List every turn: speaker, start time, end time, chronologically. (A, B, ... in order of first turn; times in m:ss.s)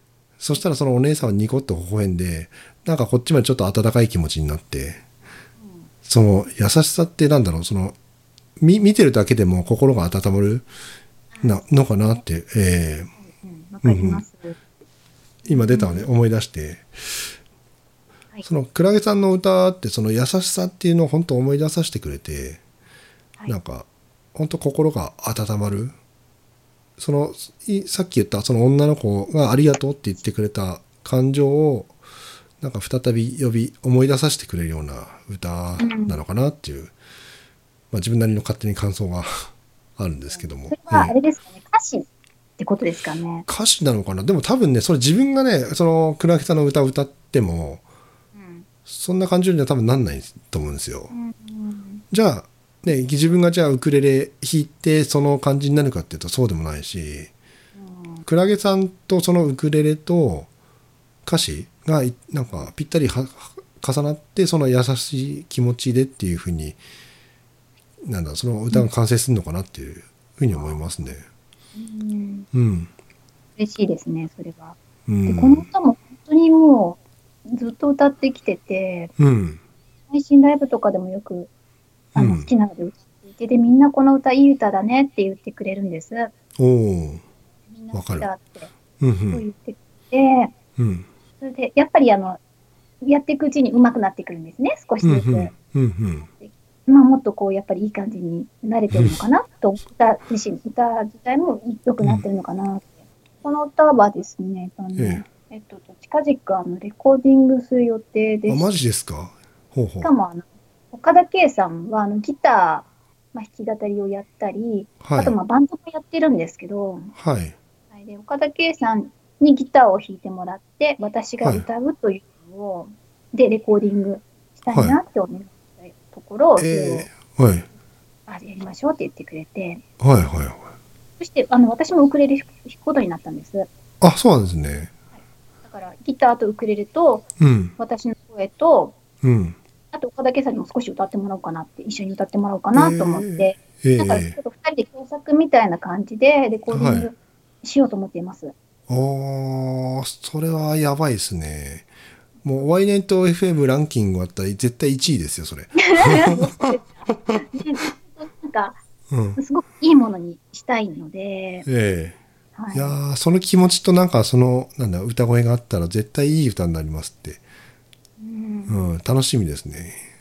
0:00.4-0:05.0 A
0:05.6-0:05.9 B
0:06.0-0:08.0 A
0:08.6-0:10.7 A
0:11.3-0:12.2 B
0:11.4-0:13.1 A
0:13.2-0:14.6 B
0:13.8-0:14.2 A
0:15.5-0:16.0 B
0:15.5-0:17.3 A
0:18.4-0:22.6 A
0:23.5-0:25.9 A
0:27.0-0:31.9 A
0:32.6-0:36.9 A
0:35.8-0:36.2 B
0:37.9-0:41.1 A
0:40.3-0:42.0 B
0:42.6-0:43.4 B
0:43.5-0:47.8 A
0:48.3-0:48.6 B
0:48.9-0:51.1 A
0:51.1-0:52.0 B
0:52.1-0:57.3 A
0:57.8-0:58.2 B
0:58.2-1:00.5 A
1:01.2-1:06.8 A
1:08.0-1:11.2 A
1:11.8-1:12.5 B
1:12.5-1:12.9 A
1:13.6-1:19.1 B
1:15.1-1:15.6 A
1:19.2-1:19.6 A
1:20.1-1:21.5 B
1:22.1-1:26.3 B
1:22.2-1:22.5 A
1:26.6-1:27.2 A
1:27.7-1:28.7 B
1:27.9-1:28.3 A
1:29.0-1:29.4 A
1:29.3-1:30.5 B
1:30.8-1:31.1 A
1:31.4-1:32.4 B
1:33.0-1:35.5 B
1:35.0-1:36.3 A
1:36.3-1:48.7 B
1:44.9-1:45.2 A
1:48.5-1:50.1 A
1:50.0-1:57.1 B
1:55.0-1:55.4 A
1:57.2-1:57.5 A
1:57.9-2:07.1 B
2:04.7-2:05.0 A
2:06.6-2:07.7 A
2:08.3-2:09.8 B
2:10.0-2:10.6 A
2:11.2-2:13.7 B
2:14.0-2:14.9 A
2:15.6-2:17.2 B
2:17.4-2:17.7 A
2:17.8-2:19.0 B
2:19.2-2:19.6 A
2:19.9-2:28.5 B
2:22.7-2:24.4 A
2:26.7-2:27.1 A
2:28.9-2:31.9 A
2:32.4-2:36.6 A
2:35.8-2:38.8 B
2:39.1-2:39.4 A
2:39.4-2:41.7 B
2:41.6-2:42.2 A
2:42.6-2:42.9 B
2:42.7-2:47.4 A
2:48.2-2:48.8 B
2:48.7-2:50.0 A